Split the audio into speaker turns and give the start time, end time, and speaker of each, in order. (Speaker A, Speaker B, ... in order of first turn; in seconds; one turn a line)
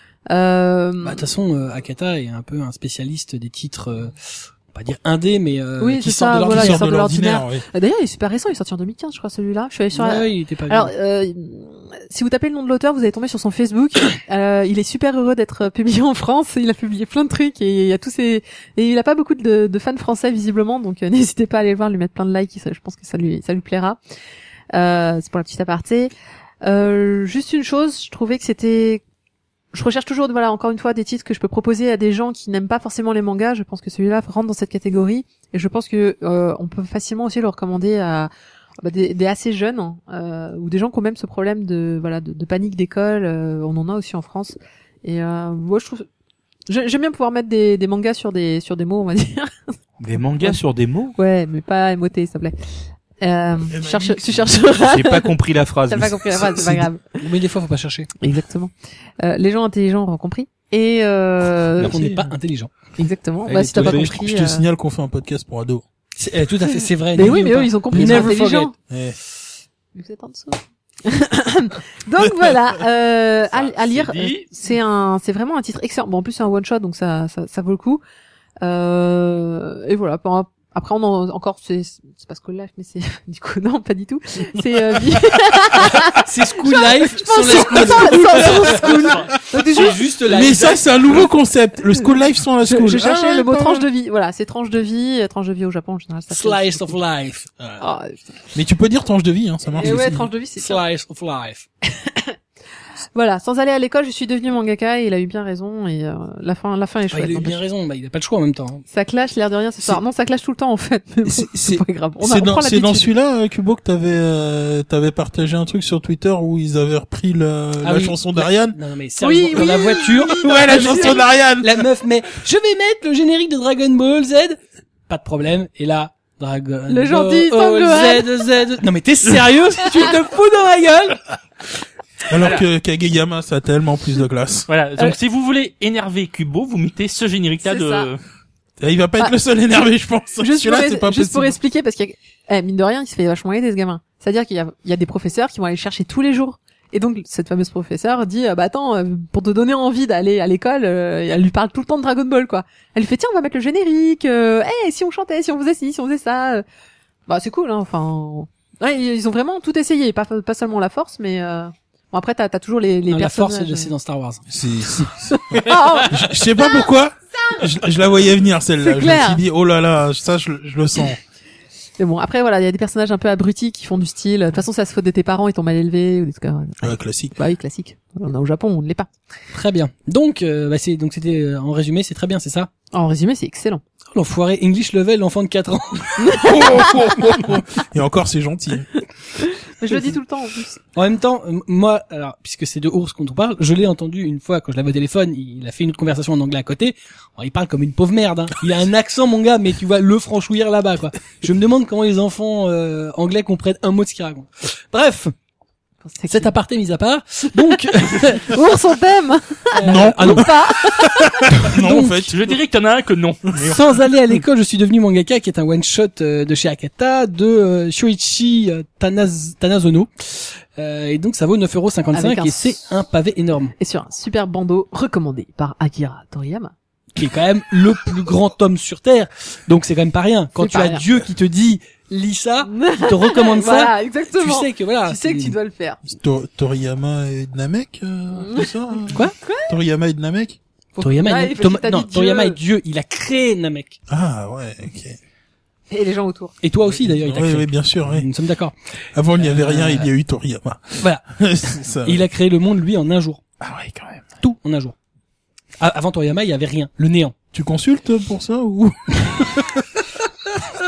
Speaker A: 0.3-1.2
Speaker B: 1.0-6.8
Speaker A: 5.8-24.0
Speaker C: 6.2-7.6
Speaker B: 9.9-10.9
Speaker A: 24.7-26.1
Speaker A: 26.6-29.0
Speaker A: 29.7-38.3
Speaker A: 38.8-46.1
Speaker A: 46.7-49.7
Speaker D: 50.0-51.1
Speaker A: 51.1-52.5
Speaker A: 53.2-55.3
Speaker C: 53.7-54.5
Speaker D: 54.8-56.9
Speaker A: 55.9-57.2
Speaker B: 57.2-58.1
Speaker A: 58.2-62.0
Speaker B: 61.8-62.7
Speaker A: 63.0-64.7
Speaker D: 63.5-64.2
Speaker C: 63.8-65.8
Speaker B: 66.2-68.7
Speaker A: 67.1-68.7
Speaker C: 67.9-68.3
Speaker C: 68.9-69.2
Speaker A: 70.0-78.0
Speaker E: 73.5-74.5
Speaker A: 78.6-90.0
Speaker B: 86.1-91.0
Speaker C: 87.9-88.4
Speaker E: 88.7-89.3
Speaker C: 90.3-93.9
Speaker A: 92.6-97.0
Speaker B: 96.3-97.6
Speaker A: 97.8-98.3
Speaker C: 98.5-100.2
Speaker A: 99.8-100.8
Speaker B: 99.8-101.7
Speaker A: 101.8-102.4
Speaker A: 103.1-107.6
Speaker B: 107.1-108.8
Speaker A: 108.9-113.1
Speaker C: 111.2-118.8
Speaker B: 117.8-131.2
Speaker A: 119.2-121.3
Speaker C: 120.4-121.8
Speaker A: 126.9-128.4
Speaker C: 132.3-134.7
Speaker E: 132.4-132.6
Speaker E: 134.7-138.2
Speaker A: 137.6-138.1
Speaker C: 138.8-141.6
Speaker A: 140.4-156.6
Speaker A: 157.3-163.9
Speaker B: 163.1-165.1
Speaker C: 164.5-171.2
Speaker A: 165.4-166.7
Speaker B: 165.6-166.1
Speaker A: 168.8-169.4
Speaker A: 172.0-179.1
Speaker C: 176.8-177.4
Speaker B: 179.5-182.7
Speaker A: 182.9-183.8
Speaker B: 184.1-186.5
Speaker A: 186.2-186.9
Speaker C: 186.3-188.9
Speaker A: 189.6-190.8
Speaker B: 190.9-205.3
Speaker A: 206.0-206.5
Speaker B: 206.3-208.6
Speaker A: 208.3-211.6
Speaker B: 209.7-210.5
Speaker C: 209.8-212.5
Speaker B: 211.6-212.3
Speaker E: 212.3-213.7
Speaker C: 213.5-213.8
Speaker B: 213.5-223.7
Speaker A: 222.1-222.8
Speaker A: 223.8-226.7
Speaker B: 227.2-235.6
Speaker A: 230.6-231.1
Speaker A: 232.6-236.0
Speaker C: 236.1-240.6
Speaker A: 238.4-238.7
Speaker A: 239.4-239.8
Speaker A: 240.9-242.6
Speaker B: 241.0-244.0
Speaker C: 244.1-245.2
Speaker A: 245.9-246.6
Speaker B: 246.6-248.7
Speaker C: 247.1-248.3
Speaker C: 249.1-252.2
Speaker B: 249.4-250.1
Speaker B: 251.0-253.4
Speaker C: 253.6-254.3
Speaker B: 254.4-254.9
Speaker B: 255.8-257.3
Speaker C: 257.5-259.8